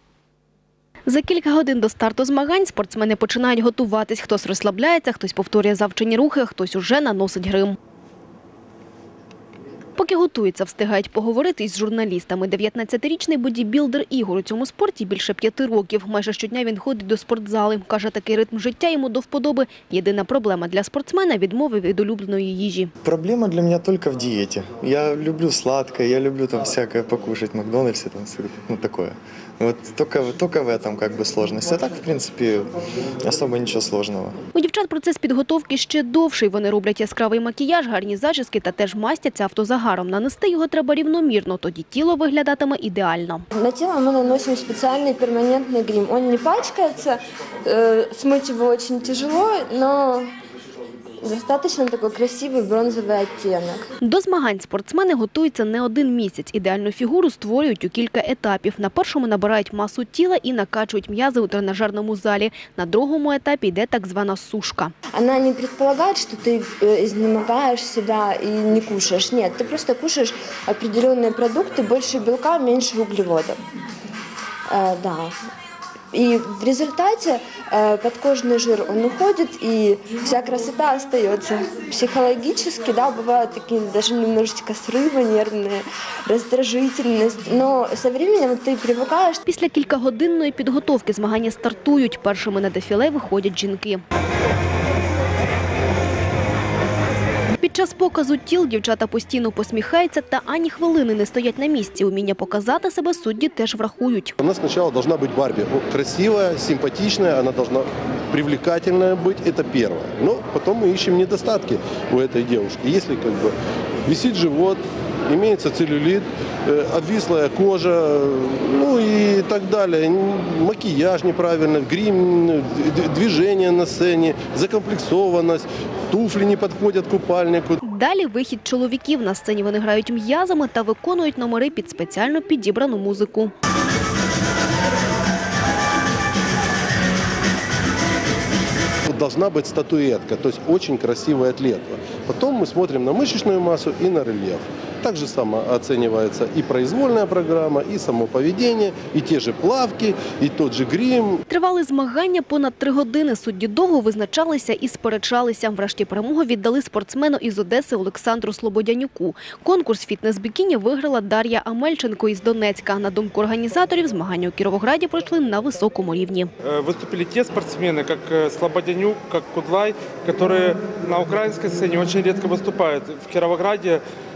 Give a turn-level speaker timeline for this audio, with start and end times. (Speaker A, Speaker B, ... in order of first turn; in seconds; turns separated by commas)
Speaker A: 1.1-7.8, Speaker A: 10.0-22.9, Speaker B: 23.0-34.4, Speaker A: 34.5-43.4, Speaker C: 43.5-50.3, Speaker C: 51.2-53.9, Speaker A: 54.0-64.9, Speaker C: 65.1-73.6, Speaker C: 74.7-75.3, Speaker C: 76.1-89.4, Speaker A: 89.5-94.0, Speaker A: 97.6-104.3, Speaker D: 104.4-127.8, Speaker A: 127.8-133.5, Speaker D: 139.1-151.4, Speaker A: 151.5-166.5, Speaker E: 166.6-174.0